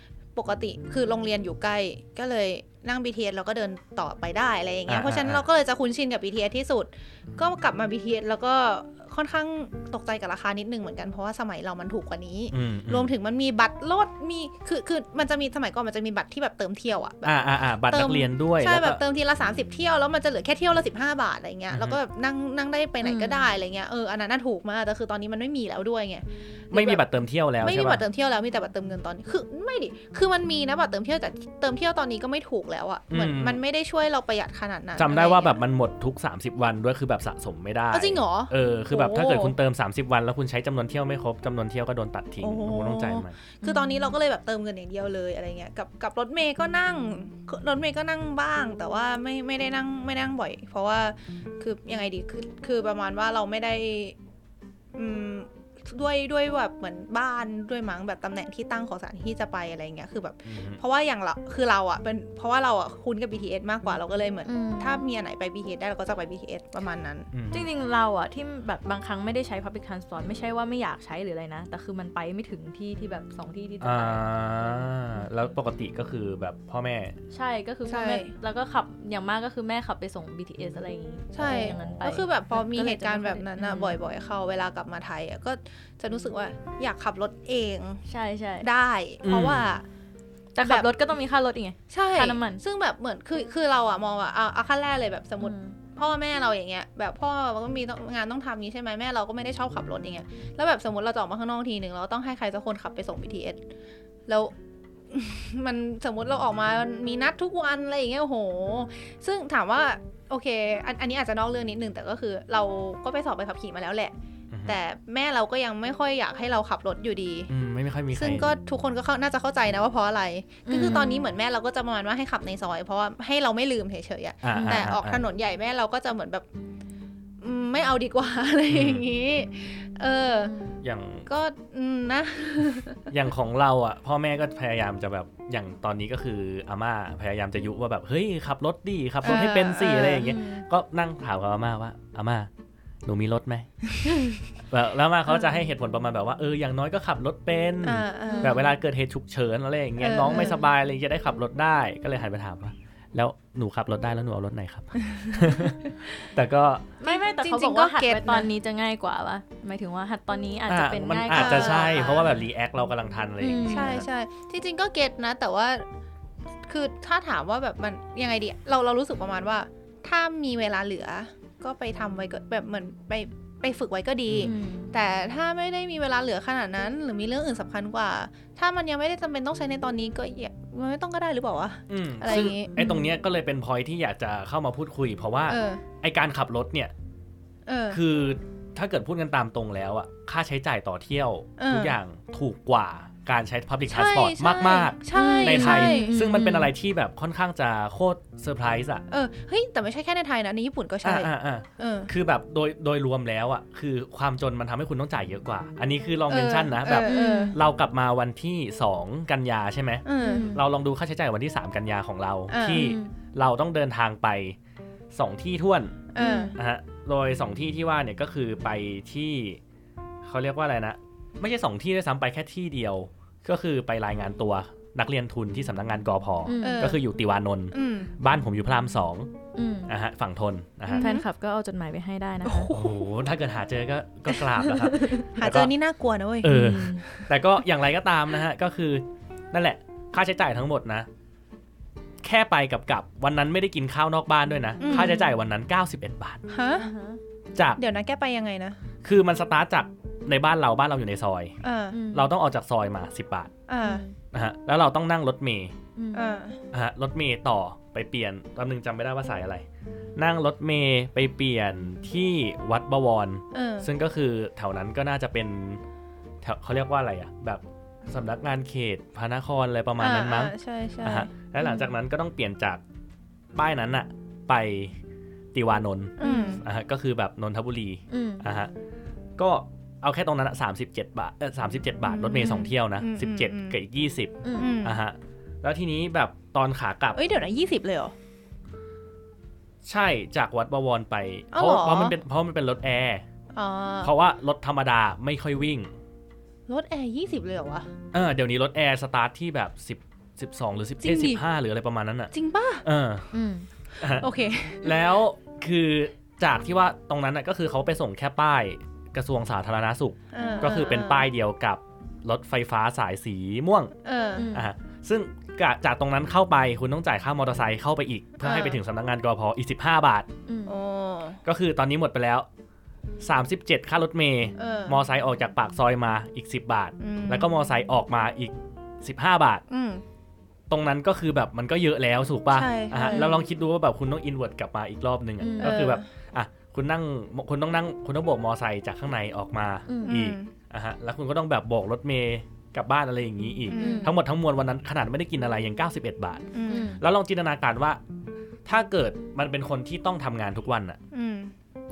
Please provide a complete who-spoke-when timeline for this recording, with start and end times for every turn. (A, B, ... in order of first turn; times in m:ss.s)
0:00.4-0:27.0 A
0:04.9-0:05.4 B
0:12.5-0:13.1 B
0:17.2-0:19.0 B
0:21.7-0:22.0 B
0:23.0-0:23.5 C
0:26.7-0:28.0 B
0:27.6-0:35.6 A
0:33.1-0:33.6 B
0:35.0-0:43.4 B
0:37.9-0:39.6 A
0:42.4-0:54.2 A
0:43.6-0:44.1 C
0:55.0-1:07.3 A
1:00.5-1:00.8 B
1:04.5-1:05.0 C
1:07.3-1:07.7 B
1:07.5-1:14.9 C
1:13.8-1:17.2 B
1:17.3-1:24.0 C
1:17.9-1:18.3 A
1:21.3-1:28.0 A
1:21.4-1:22.0 B
1:28.1-1:28.7 C
1:28.6-1:29.8 A
1:29.2-1:29.8 B
1:30.6-1:32.6 C
1:30.6-1:30.9 A
1:31.9-1:43.6 A
1:35.4-1:35.8 C
1:44.3-1:44.5 A
1:45.1-1:54.1 A
1:54.5-1:54.8 B
1:54.7-1:57.5 A
1:57.5-1:58.5 B
1:58.1-2:06.5 A
2:00.7-2:01.3 C
2:04.4-2:05.2 B
2:04.5-2:04.9 C
2:07.4-2:10.5 A
2:08.7-2:09.0 B
2:10.4-2:10.8 C
2:10.8-2:11.3 B
2:11.3-2:13.1 A
2:13.1-2:22.5 B
2:19.2-2:20.3 A
2:20.0-2:20.7 C
2:23.0-2:23.7 B
2:24.7-2:36.9 B
2:27.8-2:28.6 A
2:28.3-2:28.8 C
2:30.0-2:30.6 A
2:30.3-2:30.6 C
2:35.0-2:36.0 A
2:37.0-2:42.3 C
2:37.0-2:38.5 A
2:40.7-2:44.1 B
2:41.3-2:42.3 A
2:43.4-2:44.0 C
2:43.7-2:45.8 A
2:46.7-3:02.7 A
2:54.3-2:54.5 B
2:54.4-2:54.9 C
3:01.9-3:06.9 B
3:02.3-3:03.1 C
3:05.5-3:05.8 A
3:07.7-3:08.0 A
3:07.9-3:19.0 B
3:11.6-3:12.0 A
3:13.9-3:16.2 A
3:15.1-3:16.7 C
3:19.1-3:22.1 A
3:21.0-3:34.6 B
3:26.3-3:27.6 A
3:27.0-3:27.6 C
3:30.0-3:30.5 A
3:30.2-3:30.6 C
3:32.5-3:32.9 A
3:32.7-3:33.1 C
3:35.1-3:36.0 B
3:36.1-3:36.6 A
3:36.2-3:36.6 C
3:36.6-3:39.6 B
3:40.2-3:49.3 B
3:46.5-3:47.0 C
3:46.6-3:47.0 A
3:47.7-3:48.1 A
3:49.6-3:49.9 C
3:49.9-3:51.1 B
3:50.9-3:51.3 A
3:50.9-3:52.7 C
3:52.4-3:53.0 A
3:52.7-3:55.7 B
3:54.6-3:55.2 C
3:55.4-3:57.2 A
3:56.4-4:01.1 B
3:56.4-3:57.1 C
4:02.2-4:06.4 B
4:04.8-4:05.3 C
4:04.8-4:05.2 A
4:06.5-4:06.9 A
4:06.8-4:07.2 C
4:07.6-4:07.8 B
4:07.8-4:08.8 A
4:09.0-4:11.6 B
4:11.6-4:12.0 A
4:11.9-4:12.3 C
4:12.1-4:13.5 B
4:13.7-4:14.0 A
4:13.8-4:14.2 C
4:14.3-4:15.7 B
4:16.0-4:16.4 C
4:16.1-4:16.6 A
4:16.7-4:19.6 B
4:20.2-4:25.8 B
4:23.5-4:23.9 A
4:26.4-4:32.8 B
4:30.0-4:31.3 A
4:31.6-4:31.9 C
4:33.6-4:35.0 B
4:35.5-4:38.7 B
4:36.2-4:36.6 A
4:36.2-4:36.6 C
4:38.1-4:38.4 C
4:39.4-4:47.2 B
4:42.1-4:43.8 A
4:42.3-4:42.7 C
4:44.4-4:44.8 C
4:44.6-4:45.0 A
4:47.2-4:48.1 A
4:49.8-4:53.2 B
4:51.5-4:52.2 A
4:53.6-4:54.1 A
4:54.0-4:55.9 B
4:56.7-4:57.9 A
4:58.1-5:02.3 B
5:01.0-5:01.4 A
5:02.3-5:02.8 A
5:02.8-5:03.3 B
5:03.3-5:03.7 C
5:04.0-5:04.3 B
5:04.1-5:05.0 A
5:04.8-5:13.9 B
5:10.3-5:11.3 A
5:10.4-5:10.7 C
5:14.0-5:14.5 A
5:14.4-5:14.7 C
5:14.5-5:20.3 B
5:18.4-5:18.8 A
5:20.5-5:20.8 C
5:20.7-5:21.4 A
5:21.4-5:22.5 B
5:23.2-5:29.6 B
5:24.6-5:25.0 A
5:27.0-5:27.5 A
5:29.7-5:30.0 A
5:30.7-5:46.5 B
5:32.5-5:33.4 A
5:35.4-5:35.8 C
5:35.6-5:36.0 A
5:39.9-5:40.2 C
5:40.0-5:40.5 A
5:43.7-5:44.1 A
5:43.7-5:44.1 C
5:46.5-5:47.0 A
5:46.7-5:47.0 C
5:47.0-5:48.0 B
5:48.7-5:51.0 B
5:51.1-5:51.5 A